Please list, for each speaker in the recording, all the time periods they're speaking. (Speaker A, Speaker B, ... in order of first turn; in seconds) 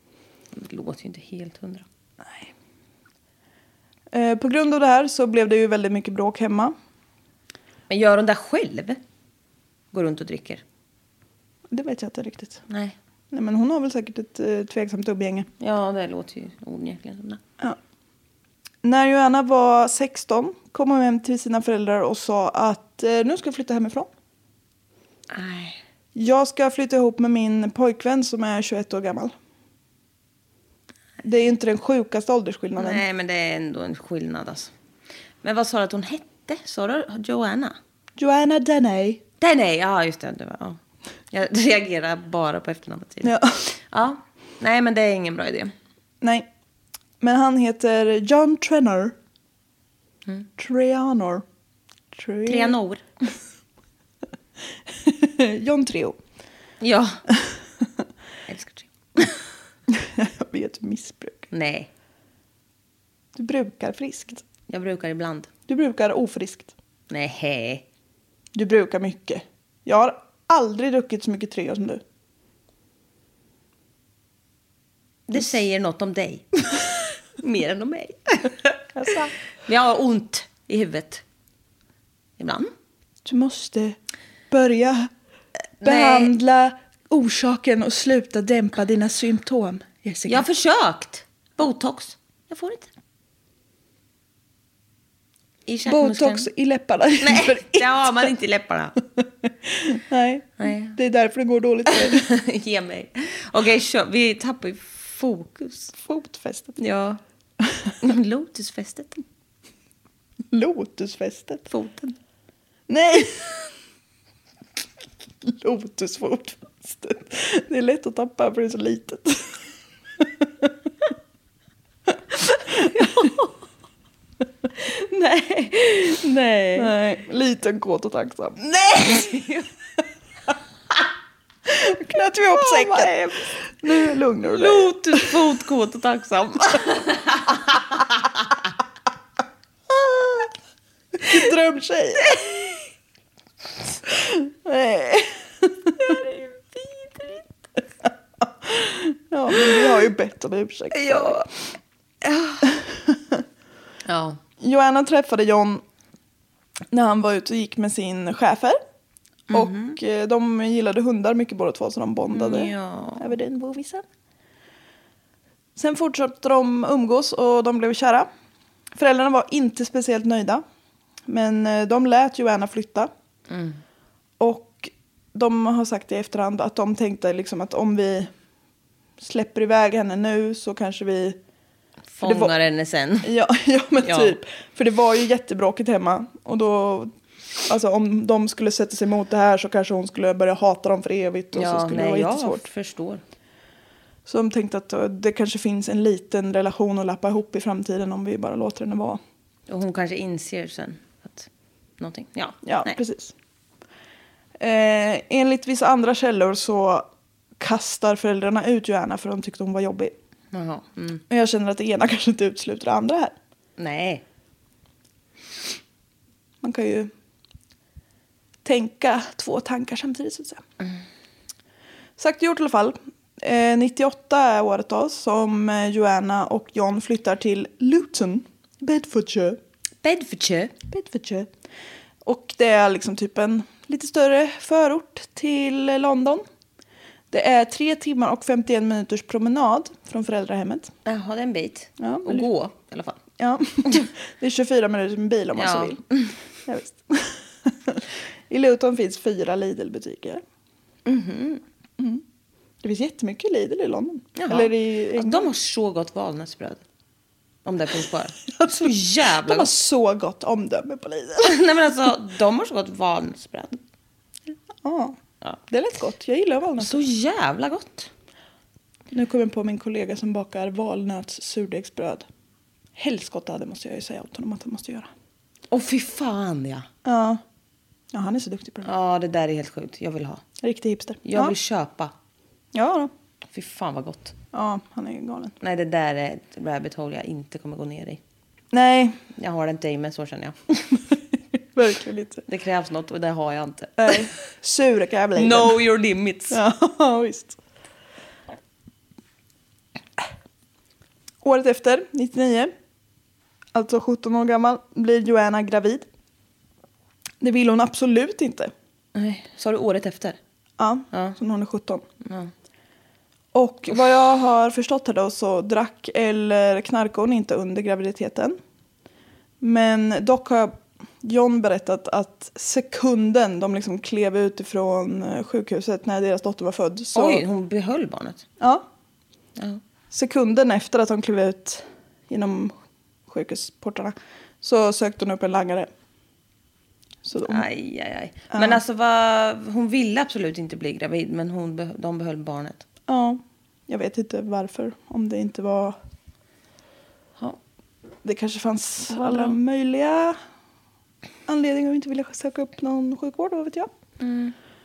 Speaker A: 0.5-1.8, 7.9-9.0, 9.9-10.6, 12.7-12.9, 15.6-17.4, 25.3-25.8, 32.8-34.7, 35.4-37.8, 39.4-40.8, 41.3-45.7, 52.5-53.0, 56.8-57.2, 58.5-59.4, 61.5-61.9, 64.7-65.5, 67.1-67.8, 75.3-76.9, 77.4-78.8, 79.7-81.2, 82.4-82.7, 85.8-86.3, 90.2-92.9, 95.7-96.5, 97.2-99.0, 100.6-101.0, 101.9-105.9, 106.8-107.2, 108.0-109.2, 111.7-112.2, 122.7-123.5, 124.8-126.9, 128.8-129.7, 132.5-133.4, 134.5-137.6, 142.3-142.7, 150.9-151.5, 152.2-152.7, 154.0-154.4, 159.5-160.0, 162.3-163.3, 173.5-173.8, 182.1-183.3, 184.0-184.4, 191.5-193.2, 199.7-203.0, 210.5-211.2, 213.8-214.2, 230.0-230.7, 241.1-243.2, 245.6-246.3, 251.1-251.6, 254.3-256.8, 257.6-259.7, 261.4-263.8, 266.8-268.1, 275.7-276.9, 278.8-280.4, 281.2-282.1, 283.5-284.3, 285.6-288.2, 289.3-290.7, 292.5-294.3, 295.4-296.6, 309.1-310.4, 312.2-312.5, 327.1-328.4, 329.6-329.8, 337.5-342.8, 349.1-349.5, 354.2-354.5
Speaker B: 2.2-2.5, 4.1-6.7, 11.7-12.6, 13.3-15.5, 18.8-24.1, 26.1-29.3, 31.2-33.0, 38.2-39.2, 43.2-43.6, 47.2-49.1, 50.6-51.4, 52.1-52.8, 55.0-56.1, 59.9-61.5, 63.4-64.4, 65.7-66.7, 68.5-72.0, 78.9-79.3, 83.2-84.0, 84.5-85.1, 85.8-90.4, 95.9-98.3, 99.2-102.2, 106.0-106.8, 110.5-111.6, 112.9-113.5, 115.4-119.5, 120.2-120.7, 126.8-129.3, 131.7-135.3, 139.9-140.5, 141.2-142.4, 144.1-146.2, 148.6-151.5, 152.7-153.4, 154.6-155.8, 156.9-158.8, 159.5-164.0, 165.8-168.3, 168.9-170.6, 171.3-173.1, 174.4-178.3, 179.2-181.4, 182.2-182.5, 183.2-187.1, 187.7-192.6, 194.2-199.2, 202.6-203.3, 204.6-207.1, 207.6-210.1, 211.3-213.3, 216.6-217.1, 218.6-220.6, 222.2-229.6, 230.9-231.5, 232.2-236.4, 237.3-240.9, 242.0-242.5, 243.4-246.0, 246.7-250.4, 252.8-255.5, 258.5-261.6, 264.8-265.2, 265.7-267.0, 269.1-272.2, 273.0-275.1, 277.0-277.4, 278.1-278.9, 280.6-281.5, 282.7-283.1, 284.5-285.5, 288.7-289.2, 291.7-292.4, 294.0-295.8, 296.5-297.6, 301.4-302.7, 303.7-306.0, 307.4-308.7, 310.8-312.0, 313.5-318.6, 319.6-327.4, 328.6-328.8, 330.1-332.7, 333.3-335.9, 337.2-337.6, 338.5-338.8, 343.1-346.0, 348.2-350.4, 351.5-353.9